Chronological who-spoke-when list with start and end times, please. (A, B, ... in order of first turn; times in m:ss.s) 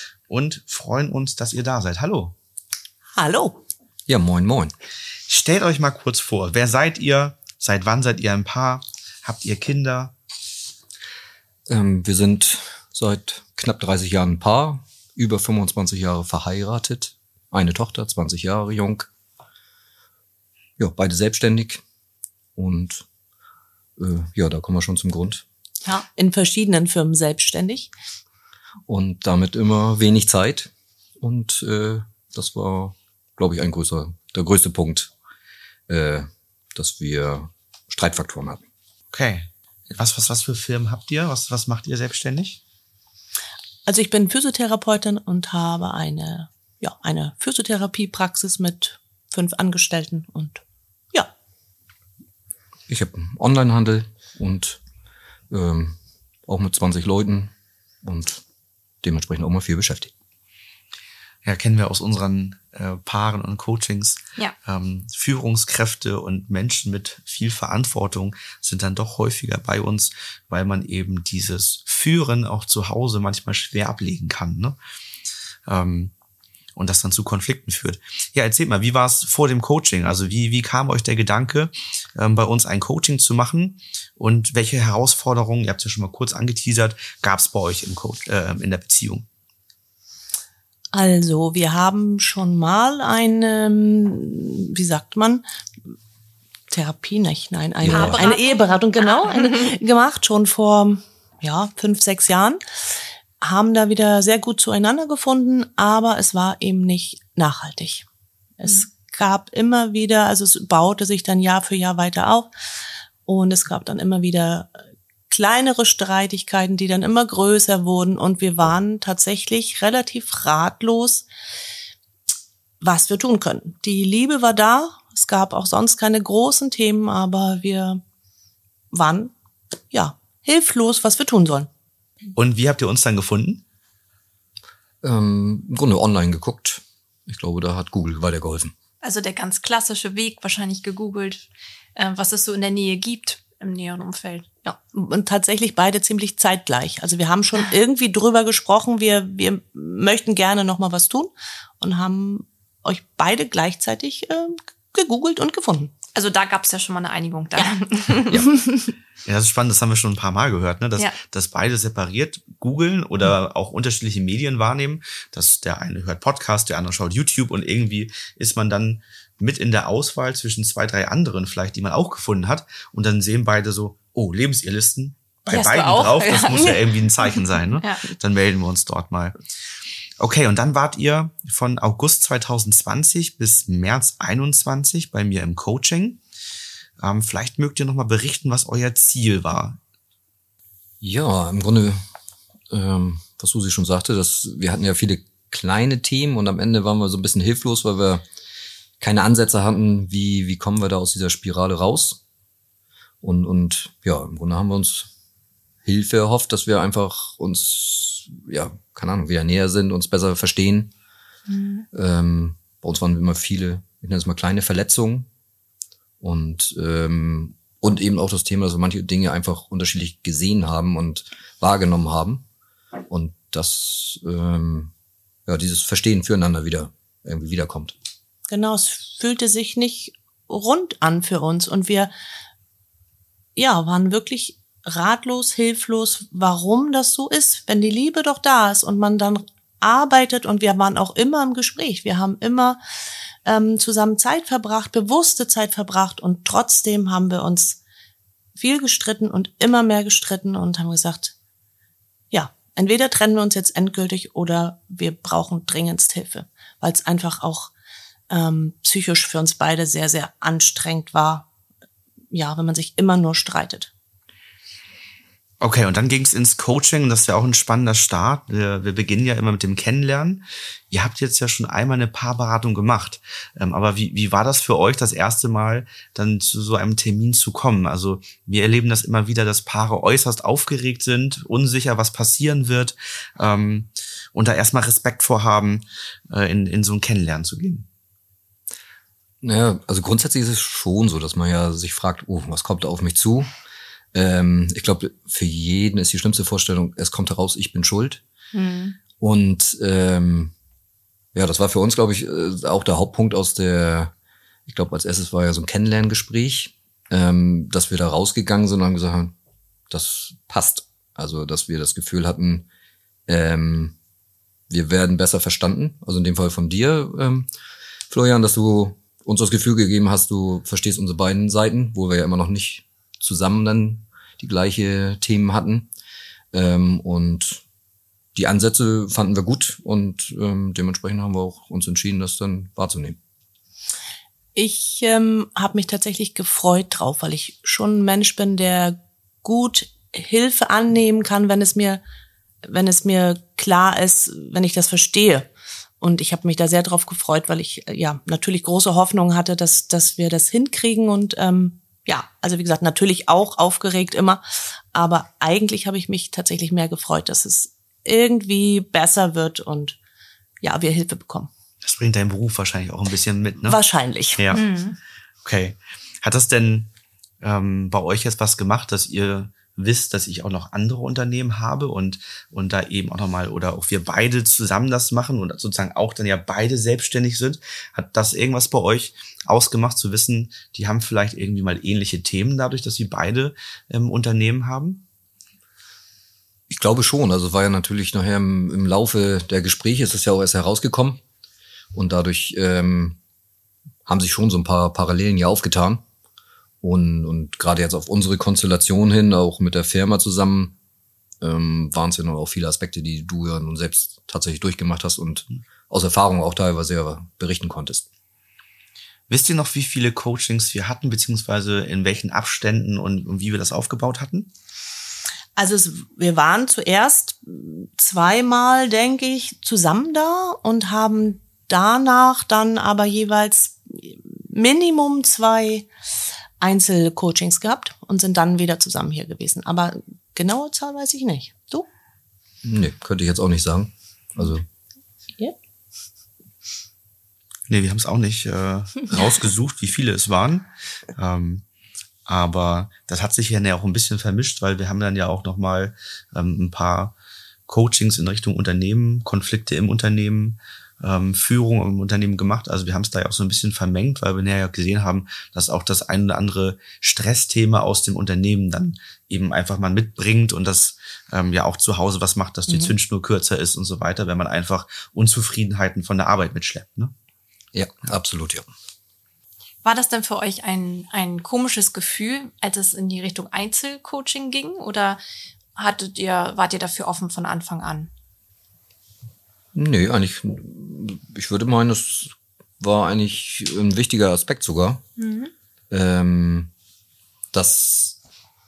0:00.3-0:02.4 A
0:03.2-0:03.6 B
0:04.1-0:04.7 C
0:05.3-0:10.1 A
0:11.7-0:19.1 C
0:20.8-0:21.8 C
0:22.6-0:23.0 C
0:24.0-0:25.4 C
0:25.8-0:27.9 B
0:28.9-0:35.1 C
0:35.9-0:38.6 C
0:39.1-0:42.6 A
0:43.9-0:50.6 B
0:52.9-0:54.8 C
0:55.5-0:58.4 C
0:59.0-1:00.1 C
1:01.4-1:14.8 A
1:15.7-1:16.1 A
1:16.8-1:29.3 A
1:30.9-1:35.4 B
1:36.7-1:42.6 B
1:37.8-1:38.3 C
1:37.9-1:39.6 D
1:43.4-1:48.0 B
1:48.6-1:52.5 B
1:53.3-1:54.8 B
1:55.3-2:01.2 B
2:02.8-2:08.0 B
2:08.9-2:09.3 B
2:09.9-2:11.7 B
2:12.4-2:13.6 A
2:15.0-2:18.7 C
2:19.0-2:24.5 D
2:24.6-2:35.9 B
2:36.2-2:38.5 D
2:39.2-2:59.4 A
2:55.5-2:58.0 D
3:00.2-3:06.2 A
3:07.0-3:09.8 A
3:11.0-3:12.0 C
3:12.7-3:18.2 C
3:19.0-3:22.2 C
3:23.2-3:25.1 C
3:25.8-3:30.9 C
3:31.5-3:31.9 D
3:31.9-3:35.3 C
3:36.2-3:42.4 C
3:43.1-3:44.9 C
3:45.5-3:48.0 C
3:48.5-3:52.1 B
3:53.6-4:02.8 B
4:03.4-4:07.8 B
4:08.6-4:11.3 B
4:12.3-4:17.7 B
4:18.3-4:21.5 B
4:22.3-4:23.9 B
4:25.6-4:47.9 A
4:49.4-4:53.5 C
4:54.1-4:58.2 C
4:58.5-4:59.0 D
4:59.2-5:00.5 C
5:01.3-5:04.1 C
5:04.7-5:09.3 C
5:09.9-5:12.7 C
5:13.3-5:14.0 C
5:14.7-5:17.5 C
5:18.1-5:25.9 C
5:26.5-5:27.6 C
5:28.4-5:33.2 C
5:34.6-5:42.0 B
5:42.6-5:45.5 B
5:46.0-6:00.0 B
6:00.6-6:01.5 B
6:01.8-6:03.8 A
6:03.7-6:04.6 B
6:04.4-6:04.6 A
6:04.5-6:05.0 D
6:05.4-6:06.9 A
6:07.4-6:25.0 A
6:26.7-6:31.2 C
6:31.9-6:33.2 C
6:34.1-6:36.0 C
6:36.8-6:40.8 C
6:41.4-6:48.0 C
6:49.3-6:54.5 A
6:55.6-7:05.9 B
7:06.6-7:11.9 B
7:12.6-7:14.6 C
7:17.7-7:21.6 A
7:22.3-7:27.1 A
7:27.7-7:47.1 A
7:42.7-7:43.0 B
7:47.7-7:48.7 C
7:49.8-7:55.2 D
7:55.8-7:58.1 D
7:59.8-8:05.0 C
8:05.2-8:05.5 D
8:05.9-8:06.7 C
8:07.5-8:08.2 C